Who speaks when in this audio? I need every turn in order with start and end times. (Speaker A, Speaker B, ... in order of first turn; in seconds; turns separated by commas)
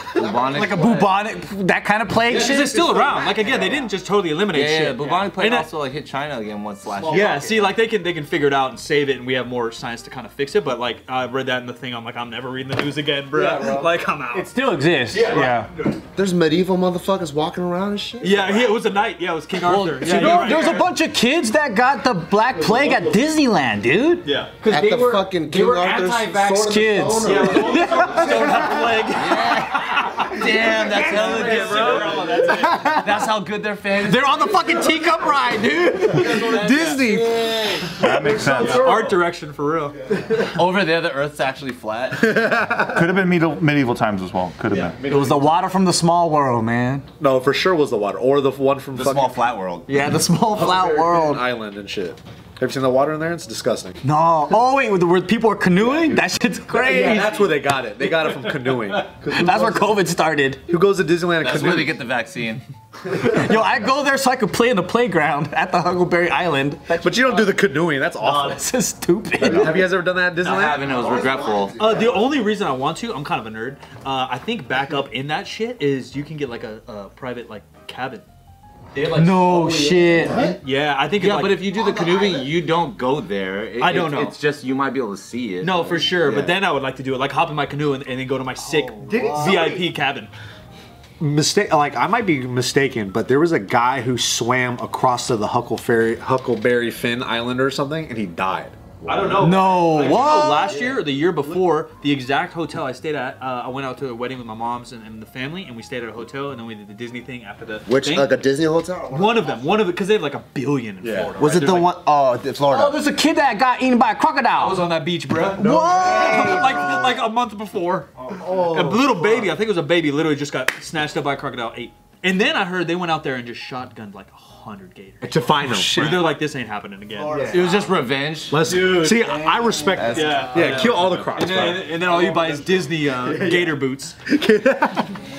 Speaker A: 0.1-1.2, Speaker B: 0.2-0.7, Speaker C: 0.5-3.0, Speaker D: 2.3-5.7, Speaker E: 2.3-3.9, Speaker A: 4.5-7.8, Speaker E: 7.0-7.3, Speaker D: 7.1-14.5, Speaker E: 13.3-13.9, Speaker C: 14.3-15.7, Speaker D: 15.1-16.0, Speaker B: 16.2-18.7, Speaker D: 18.2-20.9, Speaker C: 19.6-28.7, Speaker E: 20.0-20.5, Speaker E: 22.5-23.2, Speaker D: 24.2-24.5, Speaker B: 24.7-28.0, Speaker D: 27.2-32.9, Speaker A: 29.1-35.0, Speaker C: 30.9-33.2, Speaker E: 31.0-32.5, Speaker C: 34.0-37.0, Speaker A: 36.1-38.0, Speaker D: 36.2-36.8, Speaker E: 36.4-39.2, Speaker F: 37.9-39.0, Speaker D: 38.5-40.1, Speaker A: 40.3-42.5, Speaker E: 42.2-43.0, Speaker F: 42.9-45.0, Speaker E: 44.7-45.5, Speaker C: 45.0-47.1, Speaker E: 47.2-49.5, Speaker A: 48.9-49.9, Speaker C: 49.9-51.4, Speaker E: 50.5-54.0, Speaker C: 54.0-57.5, Speaker E: 55.9-60.0, Speaker C: 59.2-60.6, Speaker E: 60.7-62.0, Speaker A: 61.4-62.6, Speaker C: 63.1-67.5, Speaker E: 67.0-68.6, Speaker C: 68.2-69.8, Speaker E: 69.4-70.8, Speaker A: 70.4-71.8, Speaker B: 70.8-72.4, Speaker D: 71.8-78.2, Speaker D: 78.9-79.5, Speaker E: 79.1-80.6, Speaker C: 79.1-80.4, Speaker B: 80.2-80.6, Speaker D: 80.6-81.7, Speaker A: 81.2-86.6, Speaker B: 81.7-82.6, Speaker D: 83.8-84.4, Speaker D: 85.6-90.3, Speaker C: 89.0-89.8, Speaker E: 89.0-89.8, Speaker E: 91.2-99.8, Speaker D: 99.0-108.3, Speaker C: 99.4-100.7, Speaker B: 107.9-109.7, Speaker D: 109.1-112.0, Speaker E: 111.0-111.3, Speaker B: 111.4-113.0, Speaker C: 112.7-114.8, Speaker D: 114.6-127.8, Speaker E: 115.6-117.1, Speaker C: 115.6-117.1, Speaker E: 118.3-119.5, Speaker E: 125.2-126.4, Speaker B: 127.1-128.0, Speaker A: 127.5-128.6, Speaker E: 128.5-135.1, Speaker D: 128.6-129.5, Speaker B: 129.9-130.9, Speaker D: 130.0-134.2